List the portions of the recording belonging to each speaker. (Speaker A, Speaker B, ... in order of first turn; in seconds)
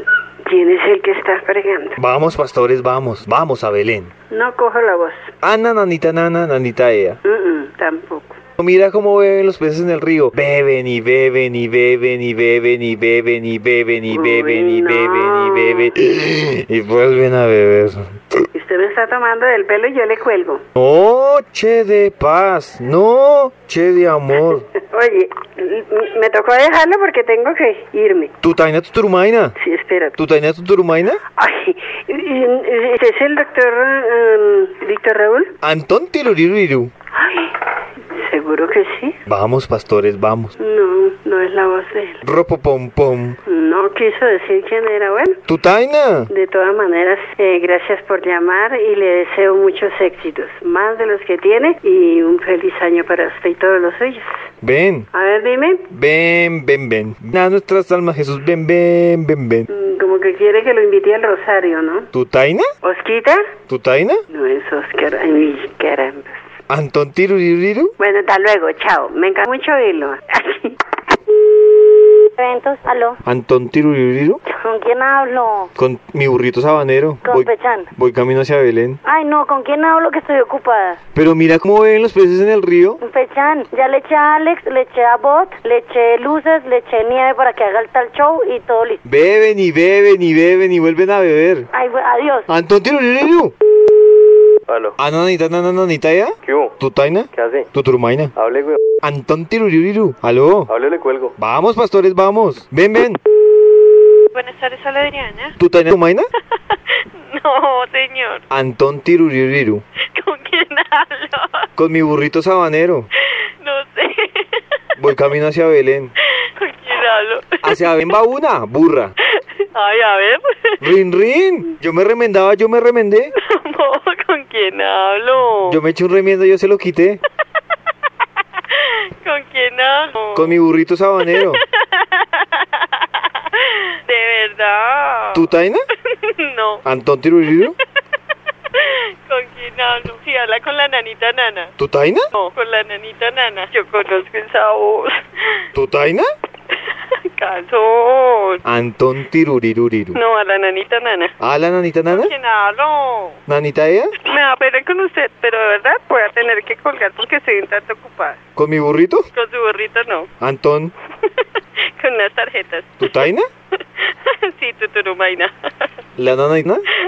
Speaker A: 0.5-2.0, 4.3-5.3, 7.2-8.4, 14.1-15.9, 18.5-20.6, 24.8-28.3, 29.6-30.2, 31.4-35.5, 37.1-37.5, 38.1-39.2, 40.6-42.2, 43.5-45.4, 46.3-54.3, 55.1-55.9, 59.7-62.1, 62.8-63.4, 64.3-66.4, 68.0-70.8
Speaker B: 2.0-4.1, 5.4-7.2, 8.6-18.0, 20.8-24.7, 28.4-29.6, 30.2-31.2, 35.6-36.9, 39.3-40.6, 42.2-43.4, 45.5-46.3, 54.6-55.1, 55.9-59.7, 62.1-62.7, 63.7-64.2, 66.7-67.9, 73.2-74.4, 75.8-79.0, 81.2-83.0, 89.0-91.7, 92.5-93.5, 95.0-98.3, 99.0-100.7, 101.4-103.2, 105.6-106.3, 108.5-109.8, 111.8-113.1, 115.0-116.1, 117.6-119.1, 120.8-123.3, 125.7-127.2, 130.3-131.6, 135.3-135.8, 136.8-137.8, 141.8-142.3, 145.7-146.3, 148.7-150.2, 151.4-152.3, 153.5-154.1, 158.6-159.3, 160.4-160.9, 163.0-163.5, 166.2-166.8
Speaker C: 72.4-73.2, 74.5-75.7, 77.2-77.9, 79.1-81.0, 83.0-89.0, 91.7-92.5
Speaker D: 94.7-95.0, 96.5-96.7, 97.3-97.7, 98.4-98.8, 100.7-101.3
Speaker E: 104.3-105.5, 107.3-108.4, 110.2-111.7, 113.6-114.6, 116.5-118.1, 119.4-120.8, 123.4-125.8, 128.8-130.6, 131.3-135.4, 136.1-136.8, 138.8-141.7, 142.3-145.2, 147.3-148.6, 150.2-151.3, 152.1-153.4, 154.2-158.4, 159.3-160.3, 162.0-163.2, 164.0-165.5